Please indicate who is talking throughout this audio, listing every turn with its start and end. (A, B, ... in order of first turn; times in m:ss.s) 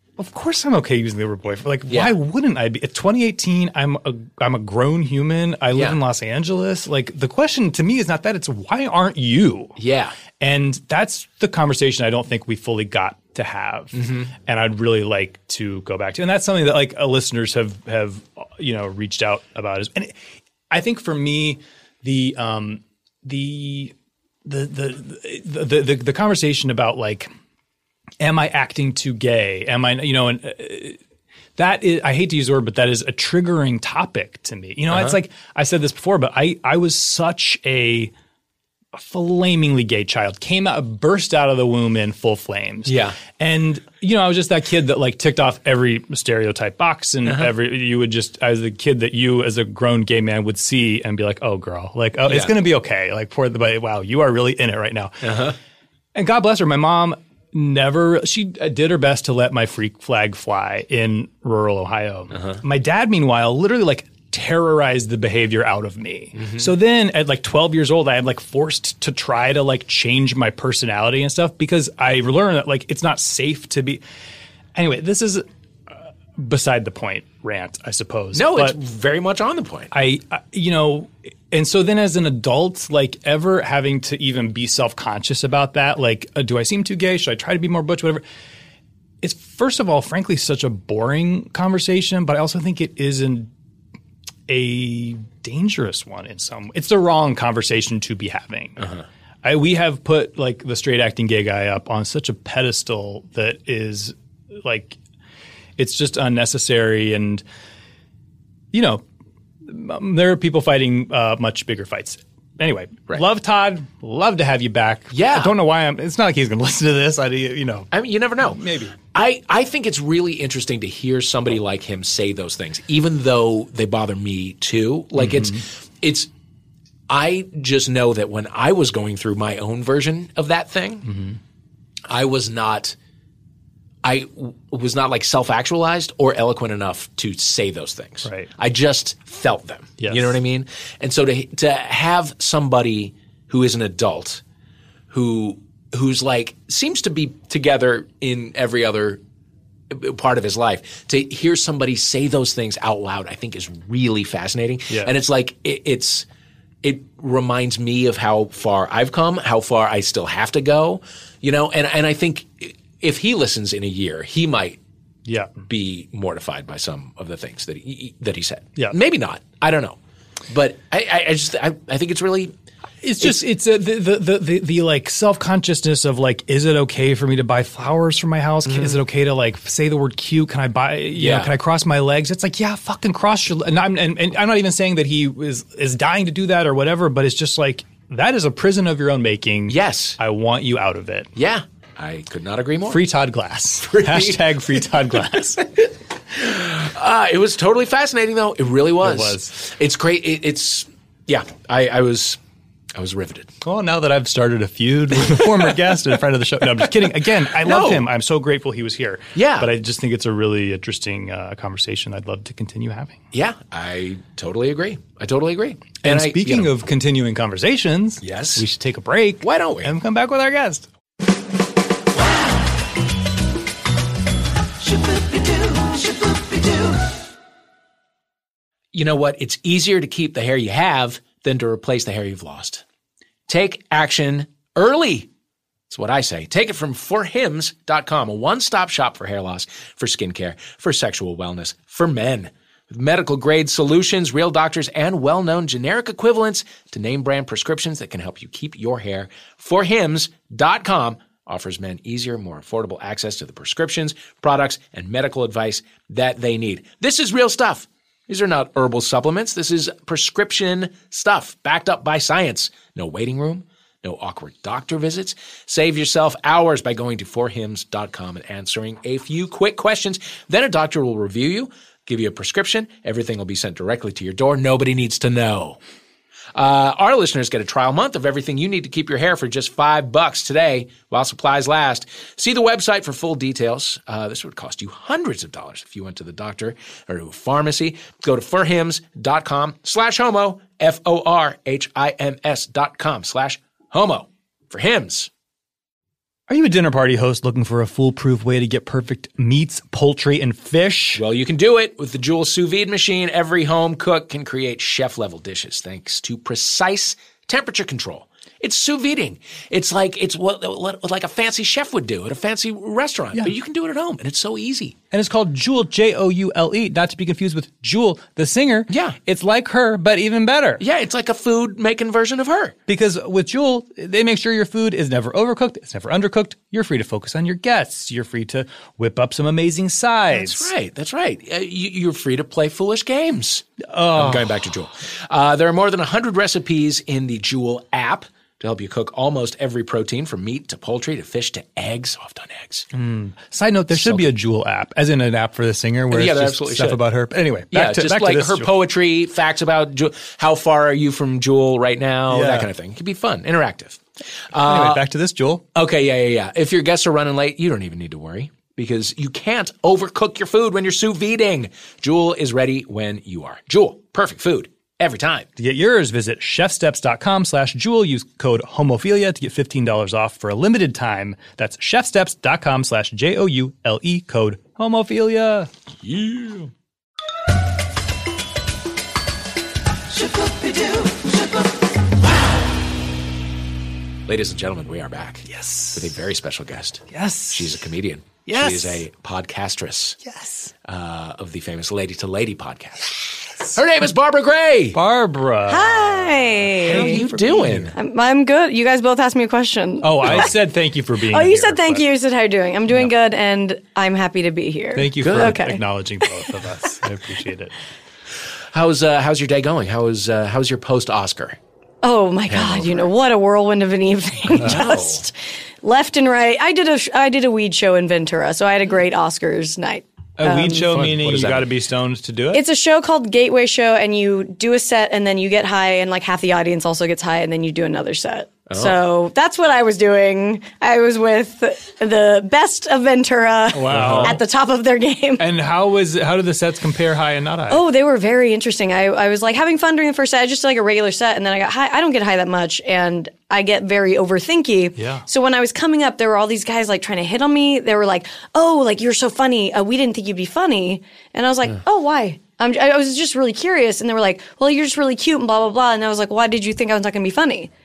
0:00.2-0:09.8 A
0:01.9-0:02.2 B
0:05.7-0:06.0 B
0:09.8-0:10.2 B
0:10.4-0:20.2 A
0:13.9-0:14.3 B
0:20.7-0:23.9 A
0:24.4-0:27.3 A
0:28.2-0:31.0 A
0:31.6-0:38.1 A
0:34.9-0:35.2 B
0:38.9-0:55.4 A
0:42.9-0:43.2 B
0:47.2-0:47.5 B
0:52.3-0:52.6 B
0:55.2-0:55.6 B
0:56.2-1:14.0 A
1:02.3-1:02.6 B
1:06.4-1:06.7 B
1:14.8-1:18.8 A
1:18.3-1:19.9 B
1:19.9-1:28.2 A
1:29.2-1:33.5 A
1:34.5-1:38.9 A
1:38.8-1:39.0 B
1:39.4-1:45.0 A
1:45.8-1:47.4 A
1:48.7-1:49.0 A
1:49.6-1:57.9 A
1:55.1-1:55.5 B
1:57.9-2:06.3 B
1:58.5-1:59.0 A
2:05.2-2:05.6 A
2:07.1-2:11.1 B
2:11.0-2:11.4 A
2:12.1-2:13.0 B
2:14.0-2:24.4 B
2:18.2-2:18.5 A
2:20.0-2:20.4 A
2:25.1-2:29.2 B
2:29.9-2:36.3 B
2:36.8-2:44.8 B
2:45.3-2:45.6 A
2:45.6-2:50.0 B
2:50.5-2:52.5 B
2:53.0-3:11.3 A
2:58.6-2:59.0 B
3:01.2-3:01.5 B
3:09.7-3:10.2 B
3:11.4-3:13.0 B
3:12.9-3:15.6 A
3:13.8-3:14.6 B
3:16.3-3:22.4 B
3:19.0-3:19.5 A
3:23.0-3:23.5 B
3:23.6-3:33.2 A
3:27.5-3:28.1 B
3:29.4-3:29.7 B
3:33.3-3:36.7 B
3:36.0-3:40.9 A
3:38.2-3:38.6 B
3:39.4-3:39.9 B
3:48.9-3:52.8 B
3:53.5-3:55.3 B
3:55.9-4:35.8 B
4:36.5-4:55.3 B
4:56.5-5:01.2 A
5:01.2-5:15.0 B
5:15.1-5:20.8 A
5:18.9-5:19.2 B
5:20.8-5:22.8 B
5:22.9-5:30.7 A
5:30.3-5:42.9 B
5:33.8-5:34.7 A
5:42.9-5:48.7 A
5:43.9-5:44.3 B
5:46.1-5:47.0 B
5:47.7-5:55.0 B
5:52.3-5:52.7 A
5:54.6-5:55.6 A
5:55.7-6:05.5 B
6:05.6-6:15.7 A
6:16.0-6:16.7 B
6:24.3-6:30.2 B
6:25.5-6:26.0 A
6:27.1-6:27.8 A
6:28.5-6:29.0 A
6:30.2-6:30.7 A
6:30.8-6:35.0 B
6:34.9-6:37.9 A
6:35.7-6:37.2 C
6:36.9-6:37.9 B
6:38.0-6:40.5 C
6:40.0-6:42.0 A
6:41.3-6:46.2 C
6:45.0-6:47.7 A
6:45.2-6:45.6 B
6:48.7-6:51.6 B
6:52.0-7:00.9 C
6:52.5-6:53.1 B
6:54.6-6:55.2 B
7:00.4-7:02.6 A
7:00.9-7:01.7 B
7:02.5-7:15.5 C
7:08.7-7:09.0 B
7:13.7-7:14.4 A
7:13.9-7:14.4 B
7:15.4-7:17.8 A
7:17.7-7:37.7 C
7:25.0-7:25.2 A